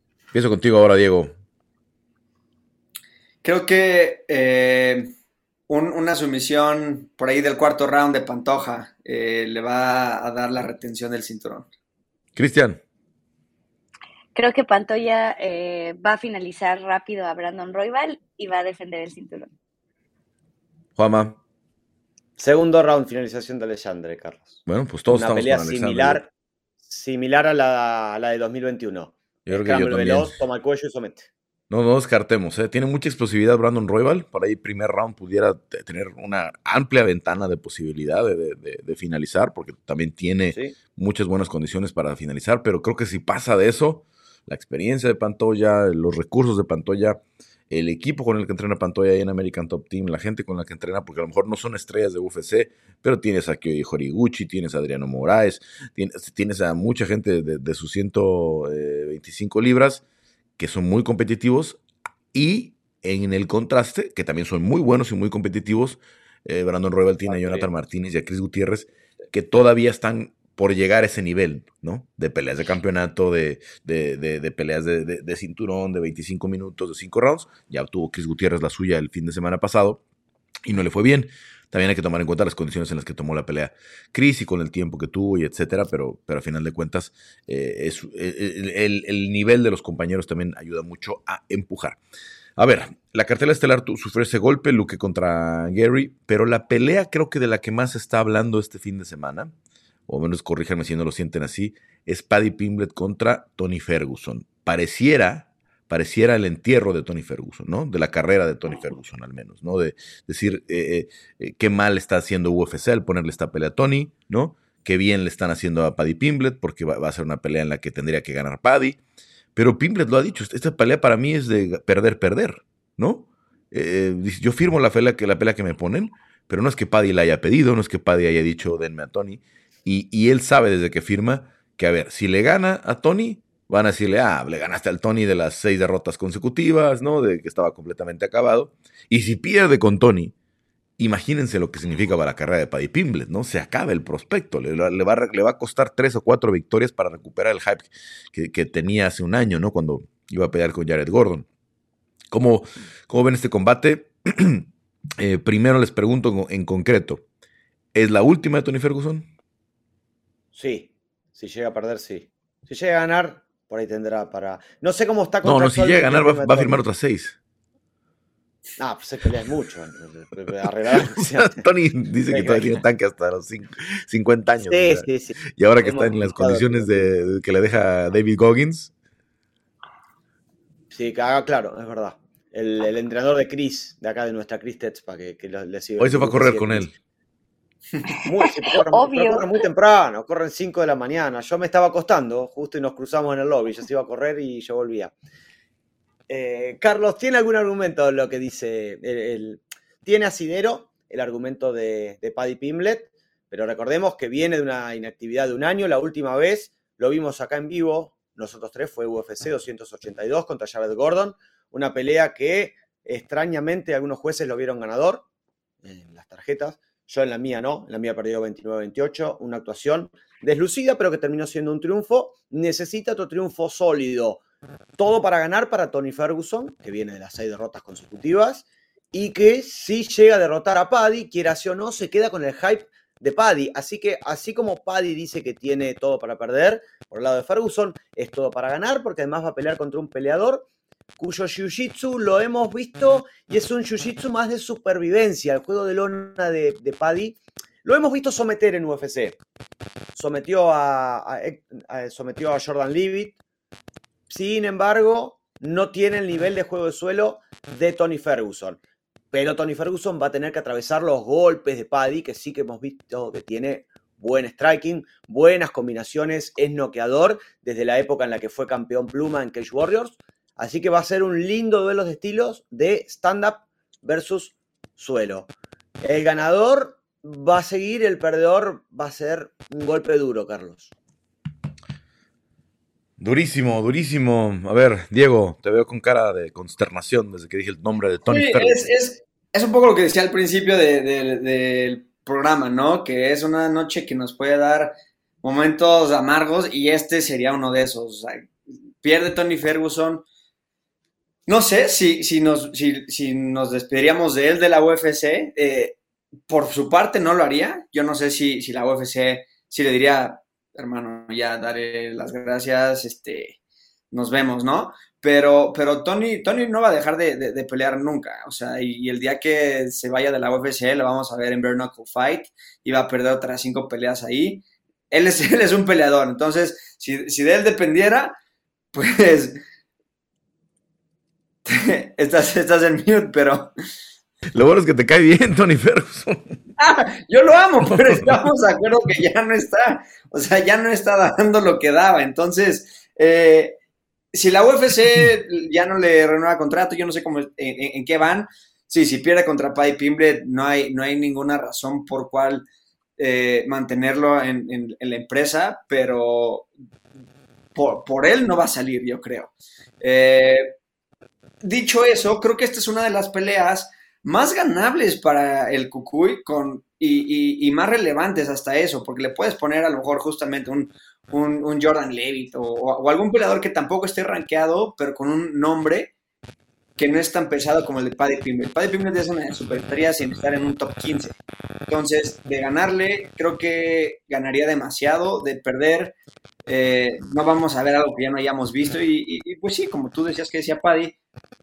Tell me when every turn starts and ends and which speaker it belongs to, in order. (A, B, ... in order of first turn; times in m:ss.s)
0:00.3-0:01.3 A
0:03.4-0:05.1 B
0:05.7-0:11.7 B
0:12.4-0:12.8 A
0:14.4-0:19.5 C
0:21.0-0:21.4 A
0:22.4-0:26.3 D
0:24.7-0:26.2 A
0:26.8-0:31.3 D
0:29.5-0:30.4 A
0:31.7-1:00.0 A
1:00.6-1:01.8 A
1:02.3-1:20.0 A
1:07.3-1:07.6 D
1:20.6-1:32.0 A
1:32.6-1:39.5 A
1:40.1-1:59.0 A
1:59.6-2:20.3 A
2:21.0-2:31.5 A
2:32.3-2:34.7 A
2:35.2-2:37.2 A
2:37.9-2:39.3 A
2:40.5-2:46.8 D
2:45.4-2:47.4 A
2:48.8-2:51.6 D
2:50.9-2:55.1 A
2:52.3-2:52.8 D
2:54.6-2:57.1 D
2:55.6-2:58.9 A
3:00.9-3:06.9 D
3:06.0-3:06.9 A
3:08.2-3:15.1 D
3:08.9-3:09.5 C
3:16.3-3:35.2 D
3:35.8-3:44.4 D
3:45.0-4:00.7 D
4:01.2-4:09.4 D
4:10.2-4:13.4 D
4:14.3-4:18.8 D
4:19.3-4:35.5 D
4:36.0-4:40.9 D
4:43.2-4:48.9 A
4:48.3-5:00.2 B
5:01.5-5:06.0 B
5:06.5-5:13.6 B
5:14.1-5:28.4 B
5:28.9-5:29.6 B
5:31.6-5:33.7 B
5:34.6-5:36.6 A
5:36.8-5:43.8 B
5:44.3-5:52.6 B
5:53.2-5:56.7 B
5:57.8-6:00.8 B
6:01.6-6:16.1 B
6:17.0-6:21.4 B
6:21.9-6:26.2 B
6:26.7-6:31.2 B